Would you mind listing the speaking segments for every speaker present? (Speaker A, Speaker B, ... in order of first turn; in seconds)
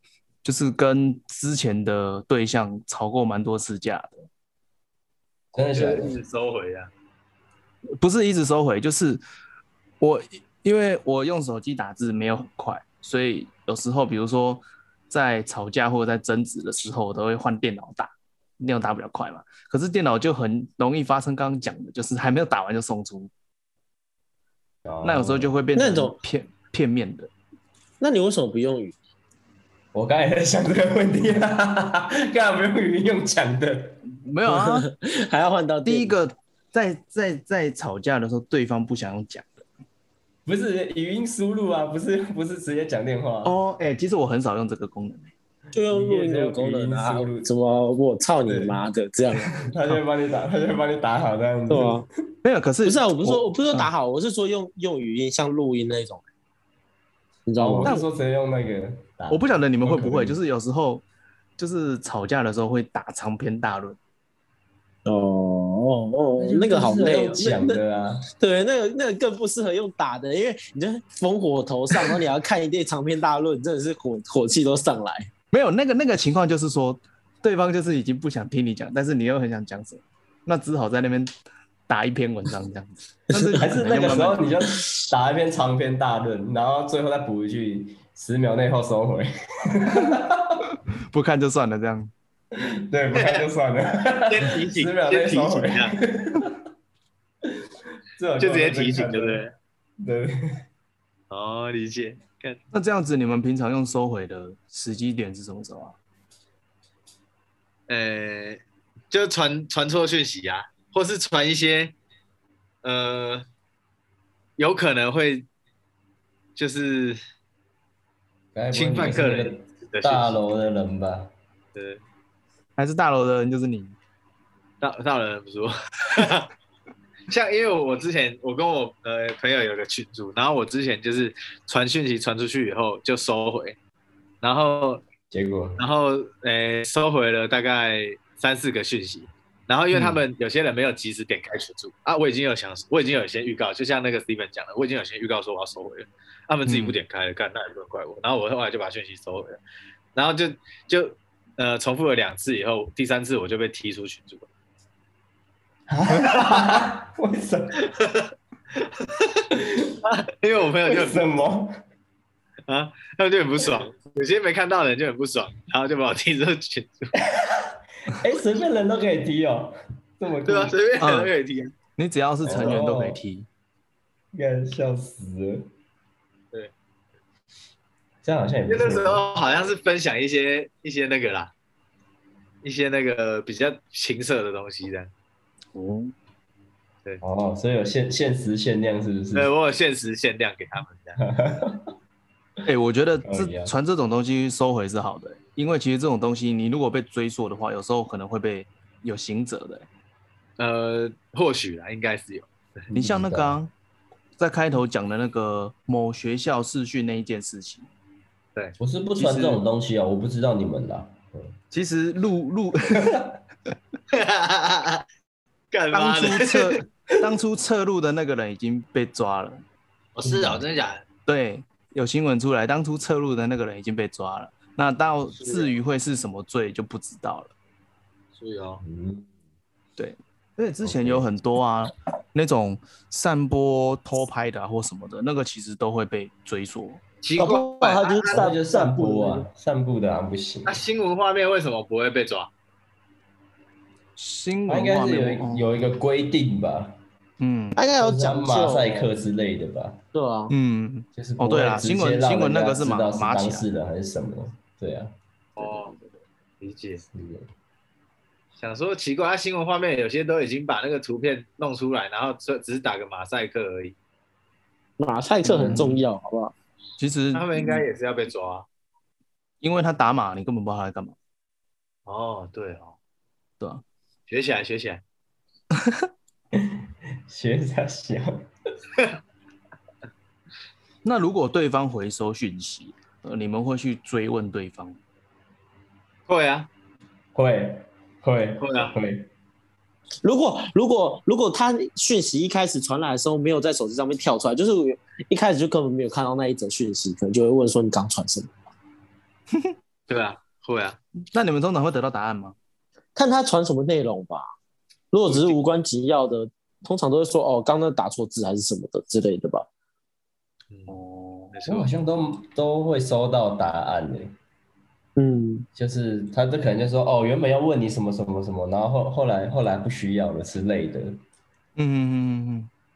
Speaker A: 0.4-4.3, 8.0-9.2, 10.0-23.3, 25.0-27.3, 34.2-34.9, 35.8-39.6, 43.4-45.3, 52.4-53.9, 59.3-61.0, 61.6-64.0, 75.5-81.3, 81.9-84.4, 90.9-92.1, 102.7-105.9, 122.8-124.0, 139.9-140.2, 146.7-147.0, 171.0-171.3, 172.0-173.5, 185.7-186.1, 192.6-199.8, 202.9-203.7, 204.4-207.9, 209.2-209.6, 211.7-213.2, 215.9-219.6, 221.2-227.5, 230.0-237.0, 244.2-245.7, 247.4-247.8, 250.5-253.6, 255.7-256.1, 265.4-266.0, 267.0-267.9, 269.6-271.1, 281.0-285.0, 301.3-302.6, 310.9-311.5, 321.8-322.7
Speaker B: 5.5-6.2, 24.8-25.5, 29.9-34.0, 40.5-43.5, 45.9-47.5, 48.5-48.8, 49.5-52.1, 57.6-60.4, 66.4-68.3, 83.4-90.6, 92.5-96.6, 98.2-99.4, 100.0-100.6, 118.5-121.3, 135.3-135.8, 155.9-157.7, 159.5-159.9, 160.8-161.7, 167.4-170.8, 172.4-173.2, 174.3-175.7, 178.2-179.2, 187.2-189.5, 191.2-191.9, 193.2-193.7, 202.9-203.6, 208.8-211.5, 212.9-213.2, 220.2-220.6, 228.8-229.3, 230.8-231.3, 238.3-240.8, 244.7-247.0, 248.0-250.0, 251.2-255.1, 257.1-257.5, 276.5-278.4, 287.3-289.3, 311.6-314.3, 315.7-321.2
Speaker C: 5.7-6.9, 93.2-93.4, 94.3-95.9, 98.4-99.5, 101.3-102.6, 107.9-111.9, 112.8-113.5, 114.6-115.5, 116.5-117.2, 118.7-120.4, 121.7-122.0, 124.8-126.5, 127.3-133.8, 134.4-135.0, 135.8-149.6, 150.1-154.5, 156.2-156.8, 157.9-159.5, 160.0-161.2, 162.7-167.1, 170.4-171.7, 172.5-172.8, 178.7-181.5, 182.6-185.1, 189.3-191.2, 200.6-202.8, 214.1-215.0, 215.7-216.8, 220.1-221.0, 225.4-225.7, 228.3-228.8, 237.2-238.5, 240.7-242.5, 255.6-255.9, 256.6-257.0, 258.6-263.9, 267.3-268.7, 272.1-272.9, 274.3-275.0, 286.3-286.7, 288.6-288.9, 300.1-301.0, 305.3-305.6, 310.7-310.9, 311.5-311.9
Speaker D: 25.7-26.1, 28.0-28.9, 34.5-36.2, 45.7-49.5, 51.7-52.0, 52.8-56.2, 57.5-58.0, 65.0-67.8, 68.4-75.3, 237.4-239.5, 247.8-249.1, 250.1-250.5, 265.0-266.5, 290.2-298.5, 303.1-304.5, 305.1-309.7, 315.2-315.7